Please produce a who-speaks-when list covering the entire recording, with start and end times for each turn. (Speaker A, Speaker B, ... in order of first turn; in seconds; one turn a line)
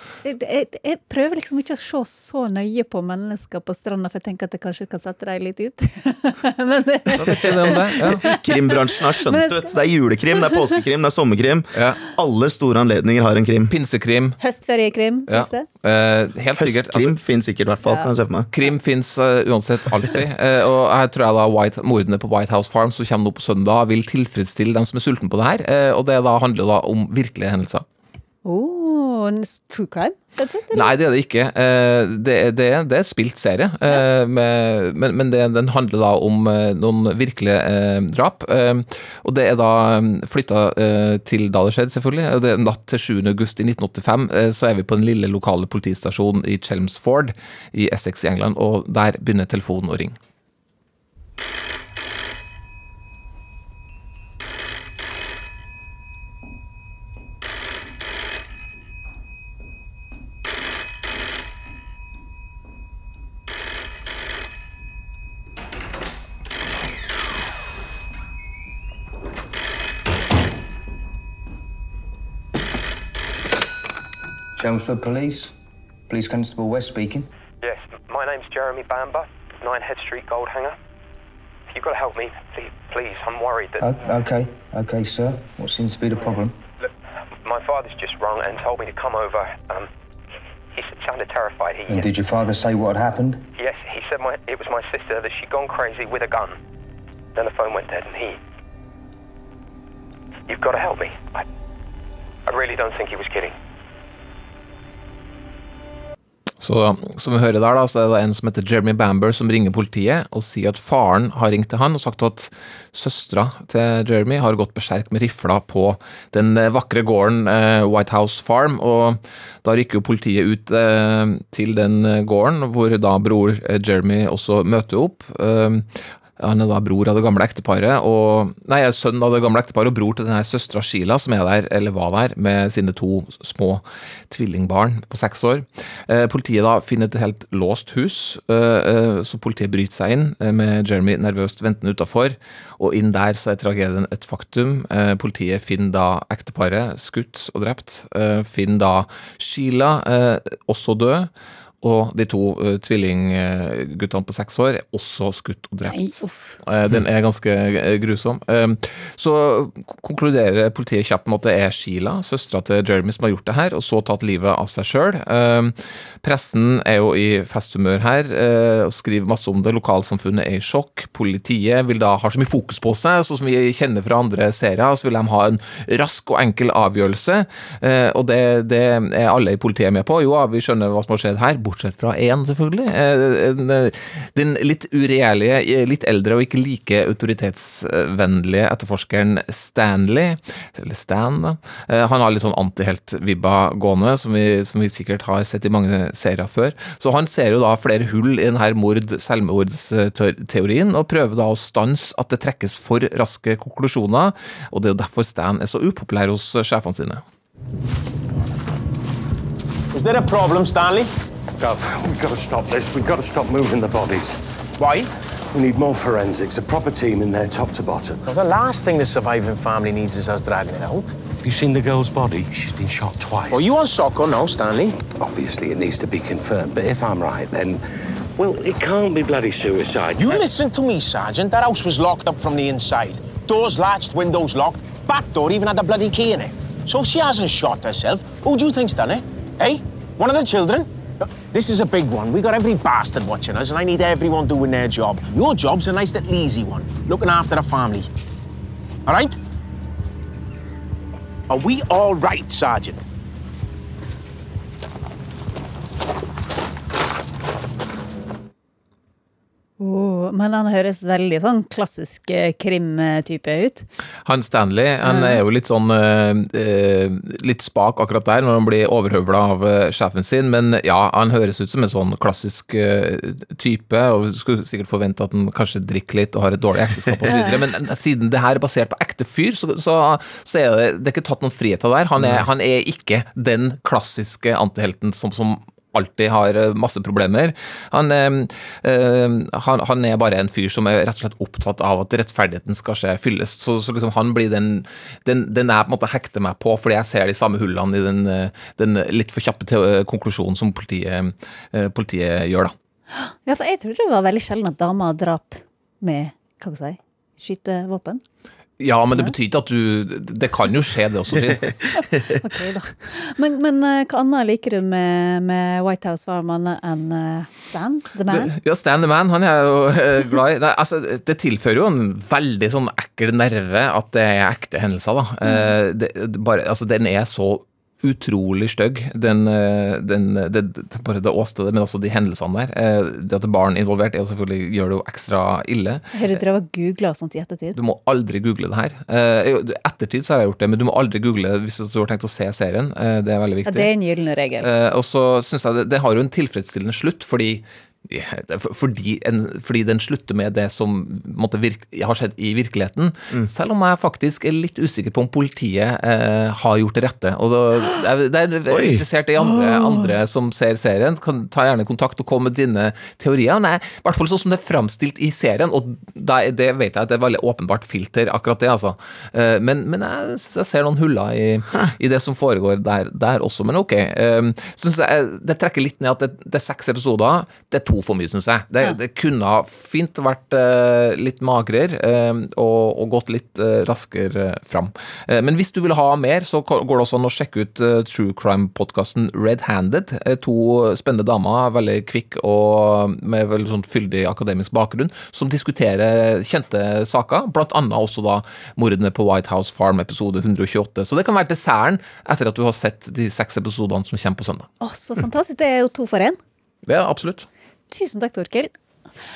Speaker A: 0.2-9.8
Speaker B: 7.2-8.3
Speaker C: 8.0-13.7
Speaker B: 11.7-12.0
Speaker B: 13.7-14.4
Speaker A: 14.4-15.7
Speaker B: 15.3-17.1
Speaker C: 16.6-18.5
Speaker A: 17.8-18.1
Speaker B: 18.5-27.9
Speaker A: 28.4-30.9
Speaker B: 30.7-50.2
Speaker D: 74.6-75.5
Speaker D: 76.1-77.3
Speaker E: 77.6-80.8
Speaker E: 81.7-83.8
Speaker D: 83.8-86.6
Speaker E: 87.4-89.9
Speaker E: 90.7-92.1
Speaker D: 91.9-93.4
Speaker E: 93.6-96.6
Speaker E: 97.3-98.4
Speaker E: 100.5-101.5
Speaker E: 102.5-103.5
Speaker B: 106.6-151.3
Speaker B: 151.8-207.2
Speaker A: 155.9-156.6
Speaker F: 209.9-211.1
Speaker G: 211.6-214.4
Speaker F: 214.8-215.1
Speaker G: 215.5-218.2
Speaker F: 218.3-221.2
Speaker G: 221.4-223.7
Speaker F: 223.5-225.1
Speaker G: 225.1-227.8
Speaker G: 228.4-230.5
Speaker F: 230.2-248.1
Speaker F: 249.1-249.4
Speaker F: 251.5-253.1
Speaker A: 259.8-263.9
Speaker B: 264.3-302.8
Speaker A: 265.0-265.4
Speaker A: 277.3-277.6
Speaker C: 282.2-282.5
Speaker A: 303.1-308.2
Speaker B: 308.8-311.8
Speaker A: 309.1-309.3
Speaker A: 311.9-318.5
Speaker B: 318.3-336.4
Speaker A: 336.1-337.8
Speaker B: 337.8-343.9
Speaker A: 343.7-344.7
Speaker B: 344.6-404.7
Speaker C: 358.7-359.0
Speaker A: 404.8-406.4
Speaker B: 406.9-407.5
Speaker A: 407.9-408.7